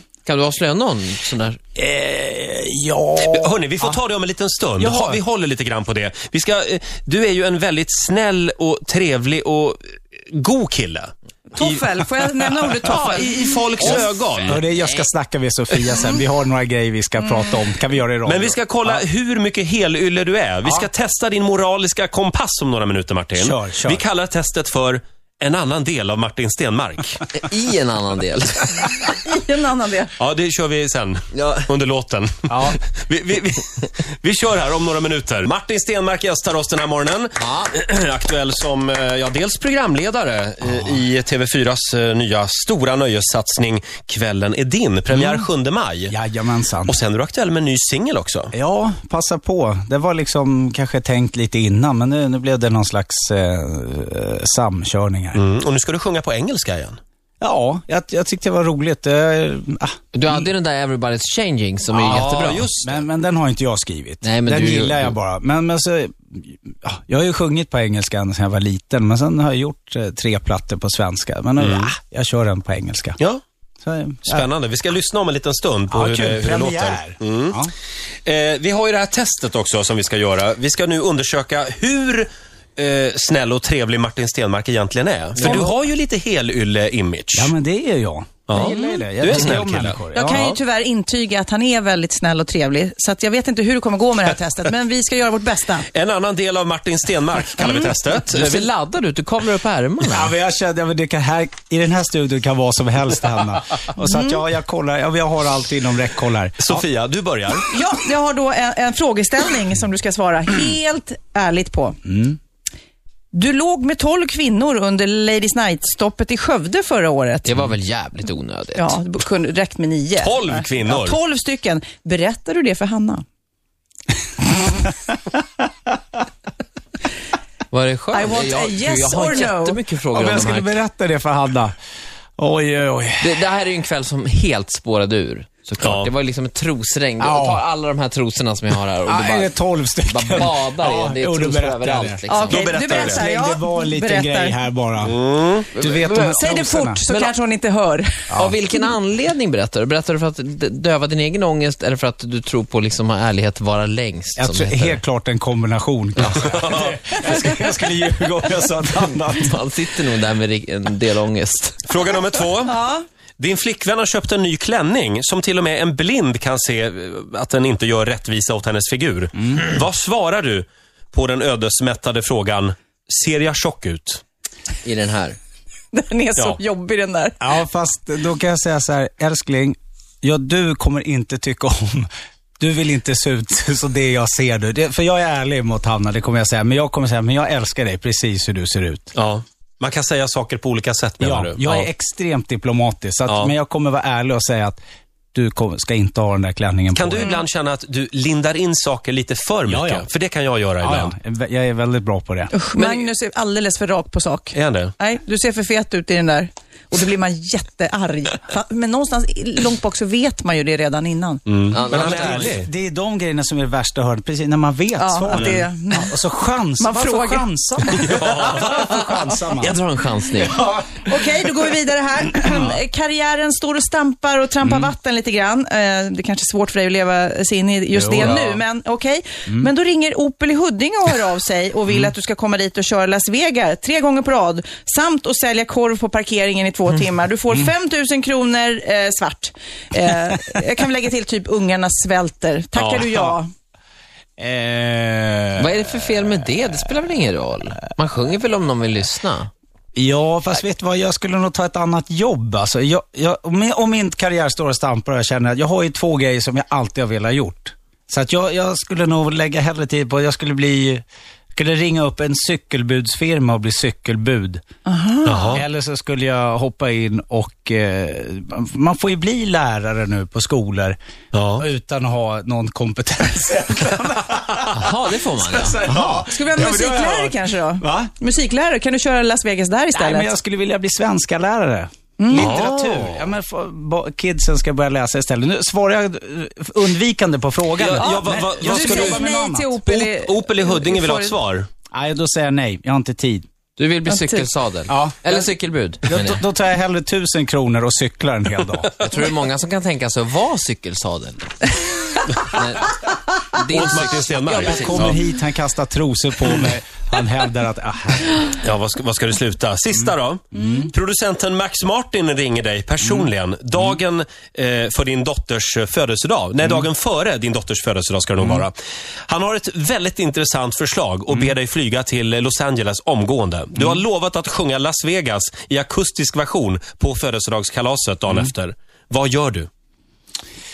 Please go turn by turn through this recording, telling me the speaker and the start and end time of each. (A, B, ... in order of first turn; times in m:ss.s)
0:00.2-0:01.6 A
0:01.8-0:04.0 B
0:03.2-0:14.6 C
0:04.8-0:05.2 B
0:11.5-0:14.1 D
0:13.8-0:15.1 A
0:13.8-0:19.0 B
0:18.3-0:27.3 C
0:23.4-0:24.0 B
0:27.3-0:28.9 A
0:29.2-0:30.1 D
0:30.2-0:46.2 C
0:31.3-0:31.7 A
0:32.5-0:32.8 B
0:37.4-0:37.7 A
0:40.6-0:41.0 B
0:45.1-0:45.5 B
0:46.1-0:47.0 B
0:46.9-0:48.5 C
0:48.5-0:55.4 B
0:55.3-0:57.0 C
0:57.4-1:00.5 B
1:00.1-1:02.7 A
1:01.9-1:13.2 B
1:02.0-1:03.0 C
1:04.2-1:05.2 A
1:11.6-1:11.9 C
1:13.8-1:14.5 B
1:14.3-1:17.6 C
1:15.9-1:17.7 B
1:18.2-1:27.5 C
1:27.3-1:30.5 B
1:28.5-1:30.6 C
1:28.6-1:29.0 D
1:30.1-1:35.9 D
1:35.9-1:38.7 C
1:37.6-1:38.0 D
1:38.3-1:40.3 A
1:40.0-1:46.8 B
1:44.0-1:44.4 D
1:46.6-1:47.7 C
1:47.7-1:52.0 D
1:52.0-1:52.4 B
1:53.3-1:57.5 D
1:57.4-1:59.0 A
1:58.8-2:03.2 D
2:00.2-2:01.2 C
2:07.7-2:10.8 A
2:08.1-2:09.8 D
2:10.1-2:11.7 B
2:12.4-2:13.5 B
2:13.2-2:22.7 A
2:15.8-2:16.1 C
2:17.2-2:17.7 B
2:19.0-2:22.3 B
2:22.3-2:24.6 D
2:22.5-2:23.3 C
2:22.8-2:25.2 B
2:25.0-2:25.7 C
2:25.8-2:26.5 A
2:25.8-2:27.0 B
2:26.4-2:28.3 D
2:28.3-2:28.6 B
2:28.3-2:35.0 A
2:34.4-2:39.7 B
2:36.5-2:37.0 C
2:39.3-2:41.8 A
2:41.8-2:42.8 C
2:42.6-2:43.0 D
2:43.4-2:54.2 C
2:54.8-2:55.4 A
2:55.9-2:57.4 D
2:57.4-3:02.1 B
3:02.6-3:09.1 B
3:09.1-3:11.9 C
3:11.2-3:14.8 B
3:13.3-3:13.5 C
3:15.3-3:17.4 B
3:16.9-3:21.1 C
3:19.7-3:20.1 B
3:20.8-3:22.5 B
3:22.5-3:31.4 D
3:24.5-3:24.9 C
3:31.5-3:32.7 C
3:31.7-3:32.5 A
3:31.9-3:39.8 B
3:35.0-3:36.2 D
3:35.3-3:35.6 C
3:36.8-3:38.1 D
3:38.0-3:39.0 C
3:39.6-3:40.6 A
3:40.4-3:41.1 B
3:41.0-4:03.5 D
3:44.6-3:44.9 B
3:48.0-3:48.4 B
4:02.8-4:03.3 C
4:04.4-4:06.5 B
4:05.6-4:09.5 A
4:10.0-4:21.0 B
4:21.6-4:24.6 B
4:24.9-4:25.6 D
4:25.2-4:25.6 C
4:25.5-4:31.0 B
4:31.3-4:31.7 C
4:31.6-4:38.1 B
4:34.7-4:36.1 A
4:36.3-4:40.3 D
4:40.0-4:49.8 B
4:42.2-4:42.6 D
4:42.3-4:43.3 C
4:47.8-4:49.3 C
4:48.0-4:51.4 D
4:49.8-4:51.7 C
4:51.9-4:53.4 B
4:53.8-4:56.4 A
4:54.1-4:54.4 D
4:54.9-4:55.5 B
4:56.0-4:58.9 B
4:59.0-5:01.7 A
5:02.4-5:03.0 A
5:03.5-5:05.2 A
5:03.7-5:05.2 C
5:04.6-5:08.5 B
5:08.6-5:18.8 C
5:10.5-5:10.9 B
5:19.3-5:29.7 C